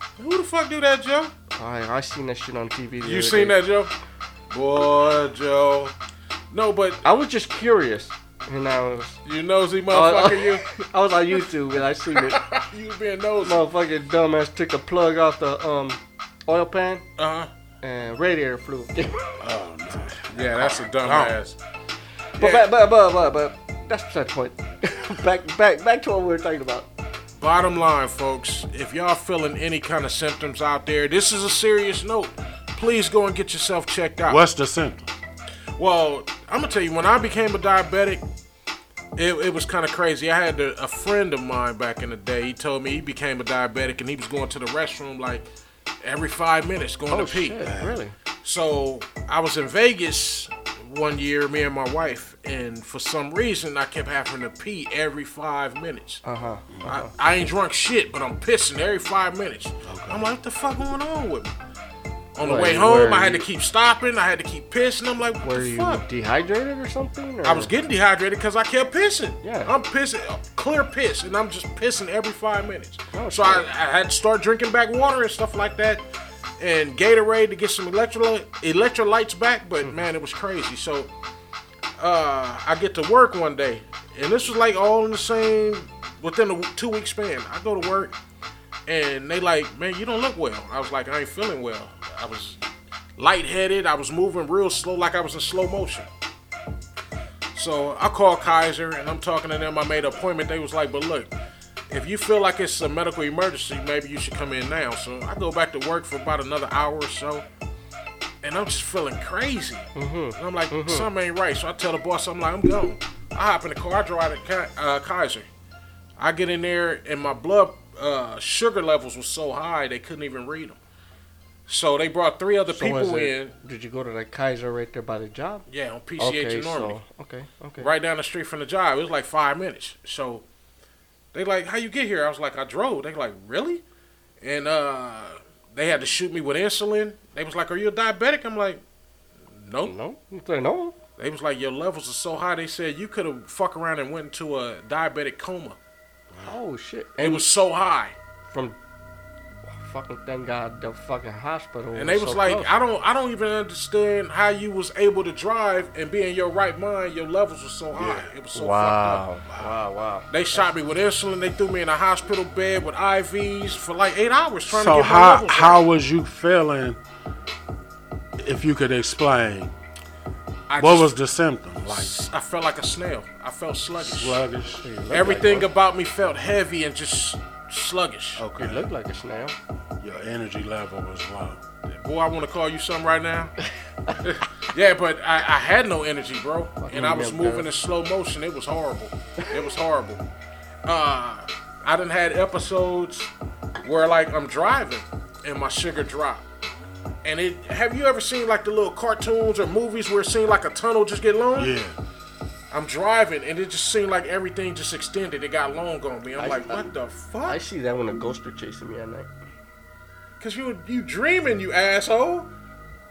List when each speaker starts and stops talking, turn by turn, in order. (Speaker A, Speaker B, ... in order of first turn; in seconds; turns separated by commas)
Speaker A: 0.2-1.3, Speaker B: 1.5-3.6, Speaker A: 3.0-3.9, Speaker A: 4.5-5.9, Speaker A: 6.5-7.0, Speaker B: 7.0-9.2, Speaker A: 9.2-10.7, Speaker B: 9.9-12.4, Speaker A: 12.1-13.6, Speaker B: 13.4-17.0, Speaker A: 17.2-17.5, Speaker B: 17.8-19.4, Speaker C: 19.4-21.4, Speaker A: 20.3-21.6, Speaker B: 22.4-26.9, Speaker A: 22.4-22.7, Speaker A: 27.4-34.4, Speaker C: 34.2-35.1, Speaker A: 35.8-38.2, Speaker A: 39.1-45.5, Speaker A: 46.0-47.6, Speaker B: 47.1-48.1, Speaker C: 47.6-48.0, Speaker A: 48.4-56.2, Speaker B: 56.2-57.1, Speaker A: 56.8-61.5, Speaker C: 59.8-60.3, Speaker A: 62.3-66.0, Speaker B: 62.4-63.5, Speaker B: 65.4-67.7, Speaker A: 67.4-76.0, Speaker B: 69.4-69.7, Speaker B: 73.1-73.6, Speaker A: 76.6-81.1, Speaker A: 82.0-88.1, Speaker A: 88.9-92.6, Speaker A: 93.2-96.1, Speaker A: 97.5-101.3, Speaker A: 101.9-107.4, Speaker A: 108.4-115.5, Speaker B: 109.9-111.1, Speaker A: 116.2-120.8, Speaker A: 121.7-123.5, Speaker B: 122.7-125.6, Speaker A: 125.7-127.0, Speaker B: 126.2-127.9, Speaker A: 127.8-130.4, Speaker A: 131.3-133.8, Speaker A: 134.4-138.8, Speaker A: 139.5-139.9, Speaker B: 139.8-140.9, Speaker A: 141.2-145.8, Speaker B: 146.4-147.5, Speaker A: 147.2-148.1, Speaker B: 148.5-148.8, Speaker B: 149.7-152.7, Speaker A: 151.9-159.2, Speaker C: 157.9-158.3, Speaker B: 158.5-160.7, Speaker C: 159.5-159.7, Speaker A: 160.3-165.8, Speaker C: 164.7-167.0, Speaker C: 168.4-169.7, Speaker A: 170.7-171.1, Speaker C: 170.8-172.1, Speaker A: 171.9-174.4, Speaker C: 174.0-174.8, Speaker B: 174.8-175.7, Speaker A: 175.1-178.4, Speaker B: 178.4-179.5, Speaker C: 178.4-178.9, Speaker C: 180.0-181.6, Speaker A: 181.9-183.5, Speaker A: 184.2-190.2, Speaker B: 186.8-187.7, Speaker A: 190.8-193.3, Speaker A: 193.8-196.4, Speaker A: 197.2-201.7, Speaker C: 201.6-201.9, Speaker A: 202.7-207.6, Speaker B: 206.4-206.8, Speaker B: 207.4-209.3, Speaker A: 210.4-212.5